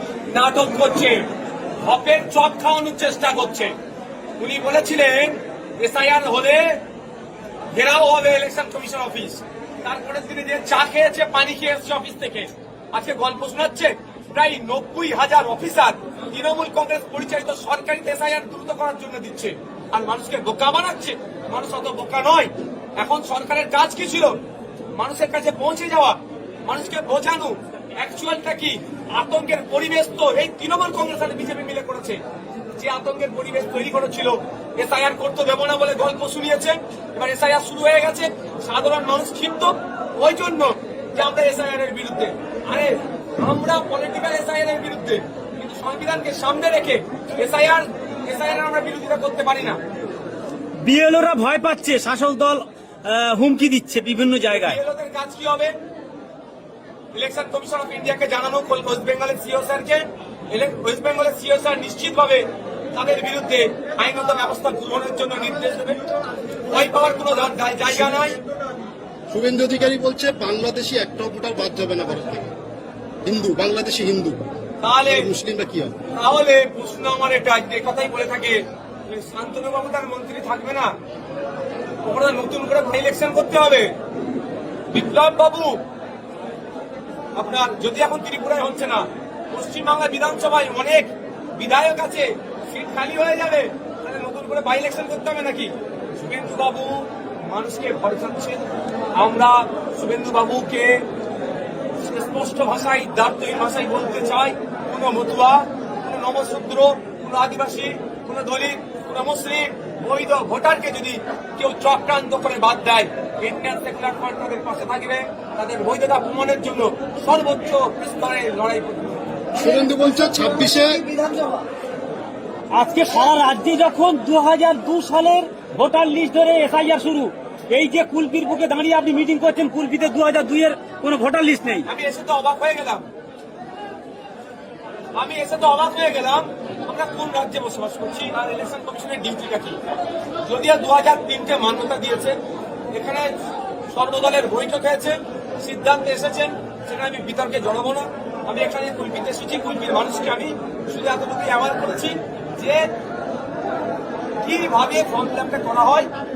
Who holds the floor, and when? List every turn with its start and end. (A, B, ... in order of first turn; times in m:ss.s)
0:00.3-0:01.3 A
0:01.8-0:03.7 A
0:04.4-0:06.8 A
0:07.7-0:24.4 A
0:24.9-0:32.2 A
0:32.8-0:49.8 A
0:50.8-0:54.8 B
0:54.5-0:55.7 A
0:57.1-1:06.0 A
1:06.6-1:08.4 A
1:09.3-1:12.5 C
1:13.2-1:14.4 C
1:14.8-1:15.3 A
1:15.1-1:16.0 C
1:16.1-1:20.9 A
1:22.0-1:23.9 A
1:24.9-1:25.8 A
1:27.4-1:38.6 A
1:39.2-1:41.0 A
1:42.0-1:59.4 A
1:59.6-2:01.1 C
2:02.7-2:11.9 B
2:11.9-2:13.0 A
2:15.2-2:19.8 A
2:20.4-2:22.4 A
2:22.9-2:23.3 A
2:23.9-2:32.9 A
2:34.4-2:36.1 A